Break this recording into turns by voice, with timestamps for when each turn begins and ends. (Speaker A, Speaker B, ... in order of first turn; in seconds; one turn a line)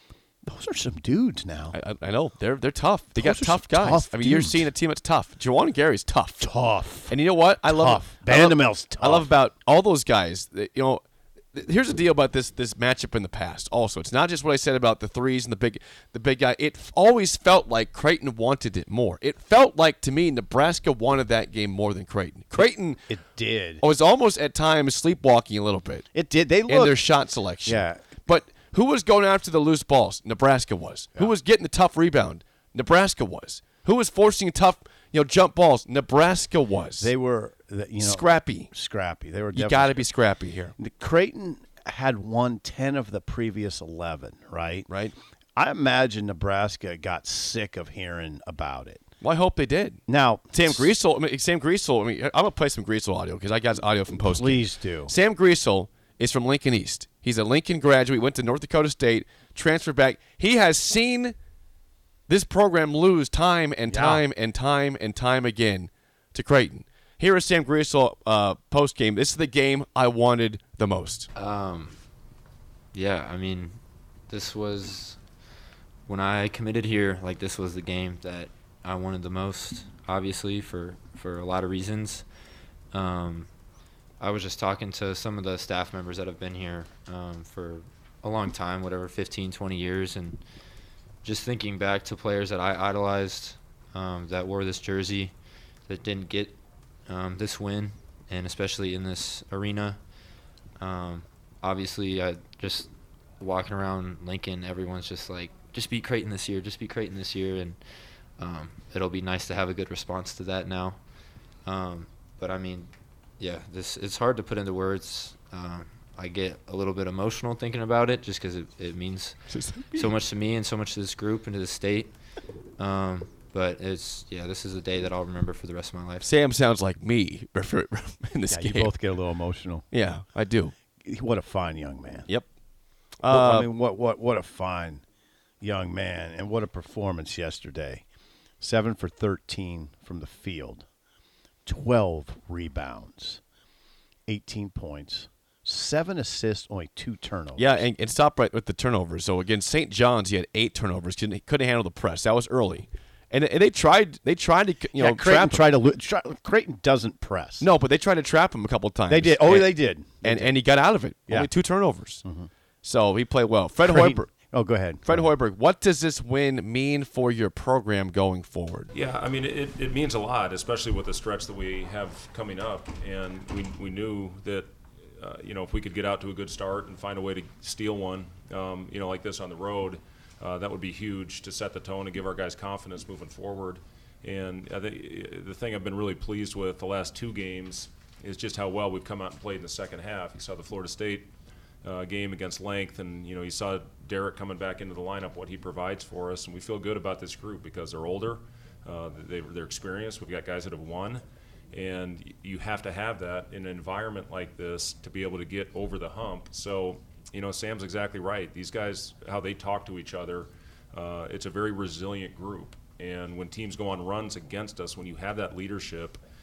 Speaker A: 0.4-1.8
Speaker B: 1.7-6.5
Speaker A: 3.2-4.7
Speaker A: 6.4-7.1
Speaker B: 7.1-23.0
Speaker A: 7.7-9.3
Speaker A: 23.1-23.8
Speaker B: 23.8-26.1
Speaker A: 26.1-27.0
Speaker B: 26.7-37.1
Speaker A: 27.6-28.1
Speaker A: 37.0-40.0
Speaker B: 38.0-38.7
Speaker B: 39.5-40.8
Speaker A: 40.8-44.9
Speaker B: 44.9-45.1
Speaker A: 45.6-49.1
Speaker B: 49.2-50.0
Speaker A: 50.1-50.9
Speaker B: 50.5-61.4
Speaker A: 54.2-55.1
Speaker B: 62.3-71.3
Speaker A: 63.9-64.2
Speaker C: 71.4-72.0
Speaker C: 72.9-75.2
Speaker C: 76.1-82.3
Speaker C: 82.9-83.5
Speaker C: 84.2-90.4
Speaker C: 91.2-95.3
Speaker C: 95.9-100.0
Speaker C: 100.8-107.8
Speaker C: 108.4-111.0
Speaker C: 111.6-122.2
Speaker B: 119.5-120.1
Speaker C: 122.8-126.3
Speaker B: 126.2-128.9
Speaker A: 128.5-129.8
Speaker B: 129.9-130.7
Speaker A: 131.0-132.3
Speaker B: 133.2-133.7
Speaker A: 133.3-135.0
Speaker A: 135.6-138.1
Speaker A: 138.6-140.9
Speaker A: 141.7-143.4
Speaker A: 144.3-147.8
Speaker B: 147.6-155.6
Speaker A: 155.0-157.7
Speaker B: 157.6-162.2
Speaker A: 159.1-160.6
Speaker A: 162.2-162.5
Speaker B: 162.8-164.3
Speaker A: 163.9-165.3
Speaker B: 165.1-168.9
Speaker D: 168.9-191.3
Speaker D: 191.8-201.2
Speaker D: 201.7-216.2